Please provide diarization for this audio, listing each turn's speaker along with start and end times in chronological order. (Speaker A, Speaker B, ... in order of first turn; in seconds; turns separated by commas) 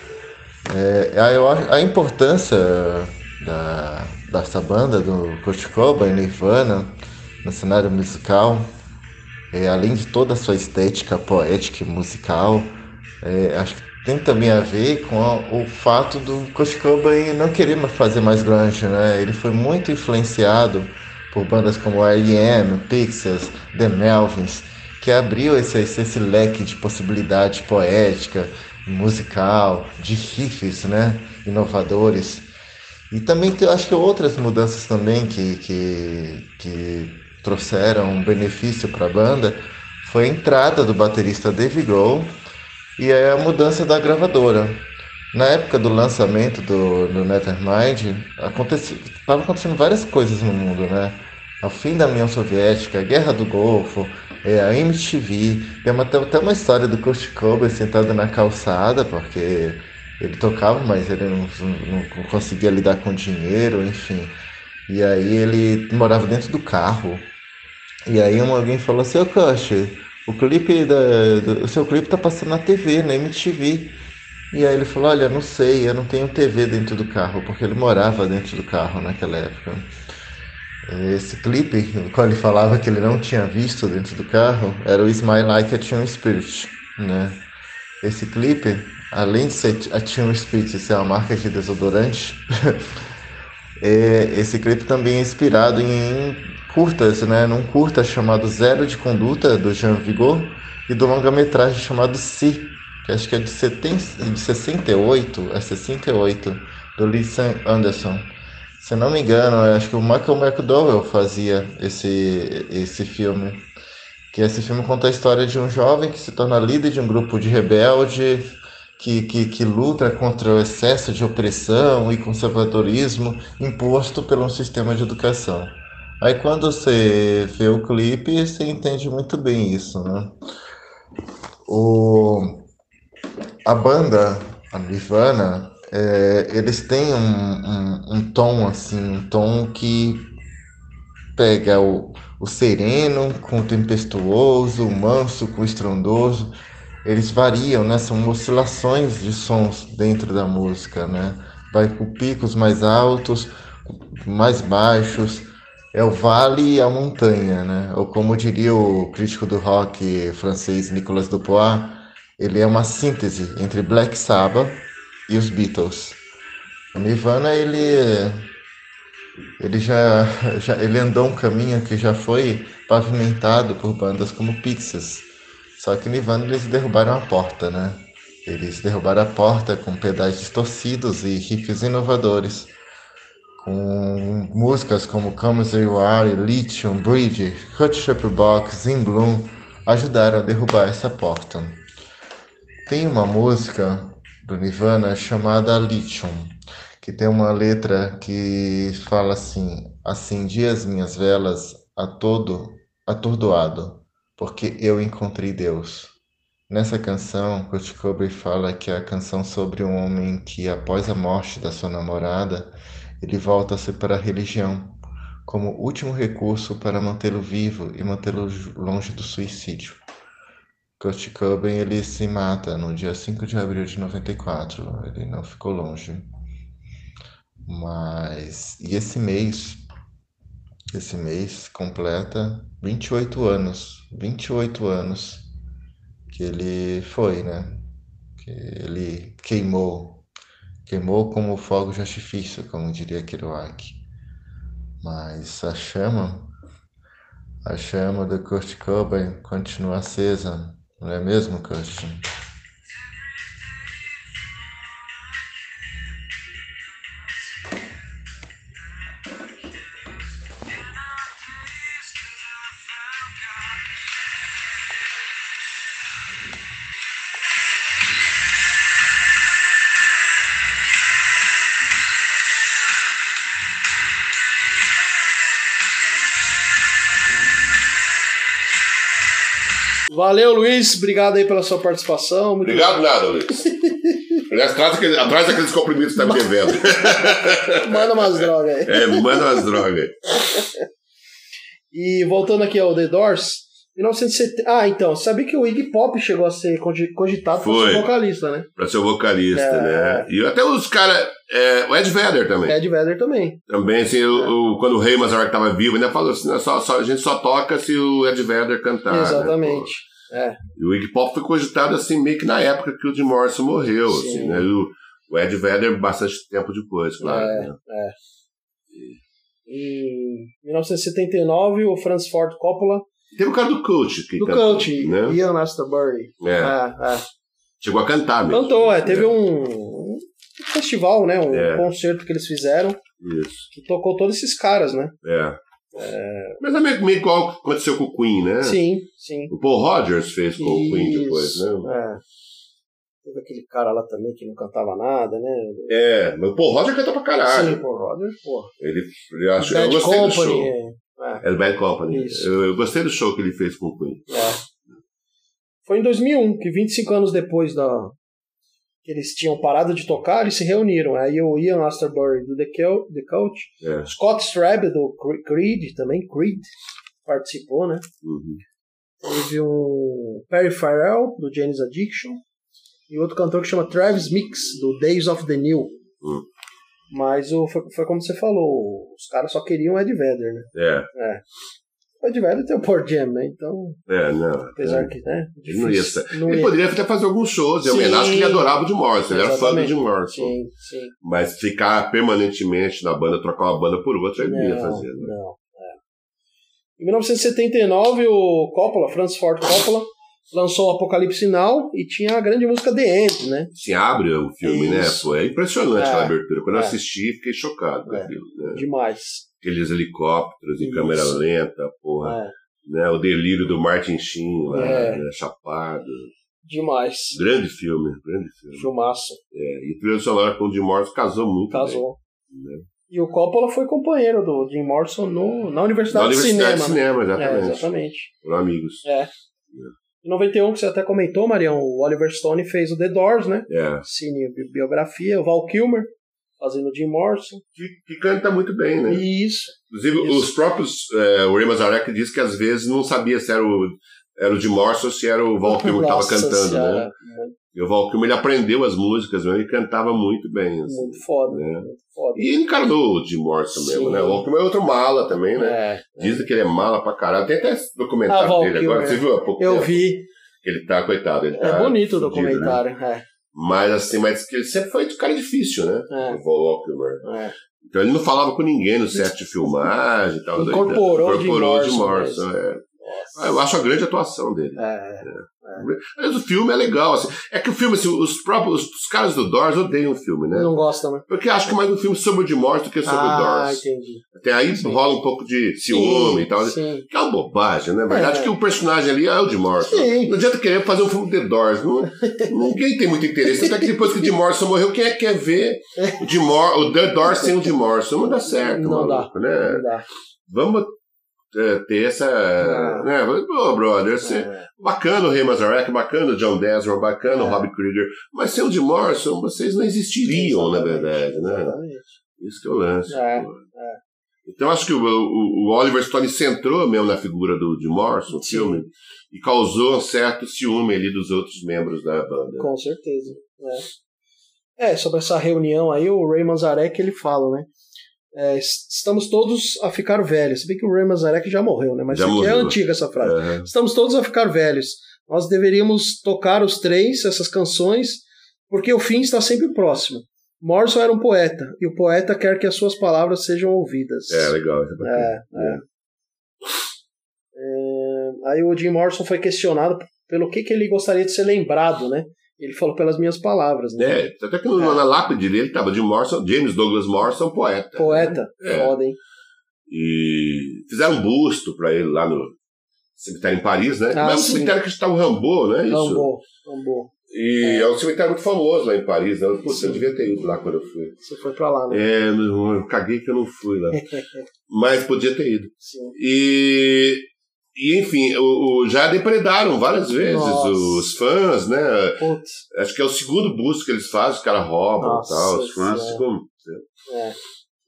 Speaker A: 0.7-6.9, Speaker A: 7.4-8.7, Speaker A: 9.5-32.5, Speaker A: 33.1-42.3, Speaker A: 43.0-44.8, Speaker A: 45.3-64.3, Speaker A: 64.9-67.3, Speaker A: 68.0-73.9, Speaker A: 74.5-79.9, Speaker A: 80.8-87.4, Speaker A: 88.0-92.9, Speaker A: 93.8-113.7, Speaker A: 114.3-130.3, Speaker A: 131.7-132.7, Speaker A: 133.6-140.3, Speaker A: 141.3-146.5, Speaker A: 147.0-166.2, Speaker A: 166.9-168.4, Speaker A: 169.6-175.3, Speaker A: 175.8-182.7, Speaker A: 183.6-191.8, Speaker A: 192.8-206.1, Speaker A: 206.7-220.0, Speaker A: 221.0-226.3, Speaker A: 227.7-229.8, Speaker A: 230.9-235.5, Speaker A: 236.3-237.8, Speaker A: 238.4-240.2, Speaker A: 240.8-244.0, Speaker A: 245.0-246.5, Speaker A: 247.6-252.2, Speaker B: 280.1-283.0, Speaker C: 282.6-283.7, Speaker B: 283.8-284.2, Speaker C: 284.5-290.3, Speaker B: 286.2-289.7, Speaker B: 291.9-298.7, Speaker C: 297.6-298.1, Speaker C: 298.8-302.8, Speaker B: 299.5-300.3, Speaker B: 302.7-303.6, Speaker C: 303.7-309.9, Speaker B: 309.1-310.6, Speaker C: 310.8-317.8, Speaker B: 314.1-314.7, Speaker B: 317.2-318.1, Speaker C: 318.9-319.2, Speaker B: 319.7-323.1, Speaker C: 323.3-325.4, Speaker B: 324.4-327.2, Speaker C: 326.4-326.8, Speaker C: 327.8-329.3, Speaker B: 328.5-333.0, Speaker C: 331.5-331.9, Speaker C: 333.2-333.6, Speaker B: 333.7-335.1, Speaker C: 335.2-335.6, Speaker B: 335.9-336.6, Speaker C: 336.6-338.8, Speaker B: 338.6-339.5, Speaker C: 339.5-341.9, Speaker B: 340.6-342.2, Speaker B: 343.2-345.9, Speaker C: 345.9-347.8, Speaker B: 347.4-348.7, Speaker C: 348.8-350.7, Speaker B: 349.6-351.4, Speaker C: 351.4-354.4, Speaker B: 352.1-352.5, Speaker B: 354.3-354.6, Speaker B: 355.9-358.1, Speaker B: 359.0-366.7, Speaker C: 363.8-364.1, Speaker B: 367.2-368.1, Speaker C: 368.2-368.6, Speaker B: 369.2-372.4, Speaker B: 373.1-375.9, Speaker B: 377.1-381.4, Speaker C: 380.7-381.1, Speaker B: 382.2-384.0, Speaker C: 384.1-385.1, Speaker B: 384.8-386.8, Speaker C: 385.6-390.5, Speaker B: 387.8-388.7, Speaker B: 389.3-391.1, Speaker C: 391.2-395.3, Speaker B: 394.4-396.0, Speaker B: 397.0-403.7, Speaker C: 403.7-408.8, Speaker B: 404.6-405.3, Speaker B: 405.9-406.9, Speaker B: 408.1-409.4, Speaker C: 409.6-416.3, Speaker B: 410.8-411.4, Speaker B: 412.2-412.5, Speaker B: 414.7-415.2, Speaker B: 416.6-417.4, Speaker C: 417.3-418.9, Speaker B: 418.7-419.4, Speaker C: 419.5-422.9, Speaker B: 421.7-422.2, Speaker B: 423.1-428.3, Speaker C: 426.1-427.9, Speaker C: 428.4-429.0, Speaker B: 429.0-429.3, Speaker B: 430.2-437.6, Speaker C: 433.7-434.0, Speaker C: 437.8-439.2, Speaker B: 439.1-440.5, Speaker C: 439.9-447.1, Speaker B: 445.6-447.6, Speaker C: 447.7-460.0, Speaker B: 450.8-452.5, Speaker B: 453.7-454.4, Speaker B: 455.6-456.4, Speaker B: 458.3-460.3, Speaker C: 460.6-462.8, Speaker B: 461.6-463.2, Speaker C: 463.5-467.2, Speaker B: 466.1-466.4, Speaker B: 467.2-467.5, Speaker C: 467.9-480.7, Speaker B: 470.5-472.4, Speaker B: 473.0-473.4, Speaker B: 474.8-475.9, Speaker B: 480.5-481.2, Speaker C: 481.3-499.8, Speaker B: 483.0-484.2, Speaker B: 485.9-487.1, Speaker B: 488.1-488.5, Speaker B: 489.8-490.4, Speaker B: 492.1-492.7, Speaker B: 493.5-494.1, Speaker B: 496.0-496.2, Speaker B: 497.2-497.6, Speaker B: 498.4-500.0, Speaker C: 500.5-500.9, Speaker C: 501.5-511.8, Speaker B: 502.6-503.1, Speaker B: 504.2-504.7, Speaker B: 507.2-507.7, Speaker B: 510.2-512.1, Speaker C: 512.4-513.6, Speaker B: 513.1-514.0, Speaker C: 514.5-522.7, Speaker B: 518.3-518.8, Speaker B: 522.6-523.9, Speaker B: 524.8-527.7, Speaker B: 528.3-545.8, Speaker C: 532.1-533.7, Speaker C: 544.3-545.8, Speaker B: 547.5-554.2, Speaker C: 554.0-558.9, Speaker B: 554.8-555.0, Speaker B: 558.0-559.2, Speaker C: 559.9-562.5, Speaker C: 563.2-566.3, Speaker B: 564.1-564.7, Speaker B: 565.9-567.9, Speaker C: 567.3-571.2, Speaker B: 569.7-570.0, Speaker B: 571.2-572.0, Speaker C: 571.9-574.0, Speaker B: 573.9-574.5, Speaker C: 574.7-586.8, Speaker B: 575.8-576.1, Speaker B: 580.2-581.1, Speaker B: 582.2-582.6, Speaker B: 585.0-586.2, Speaker B: 587.1-587.4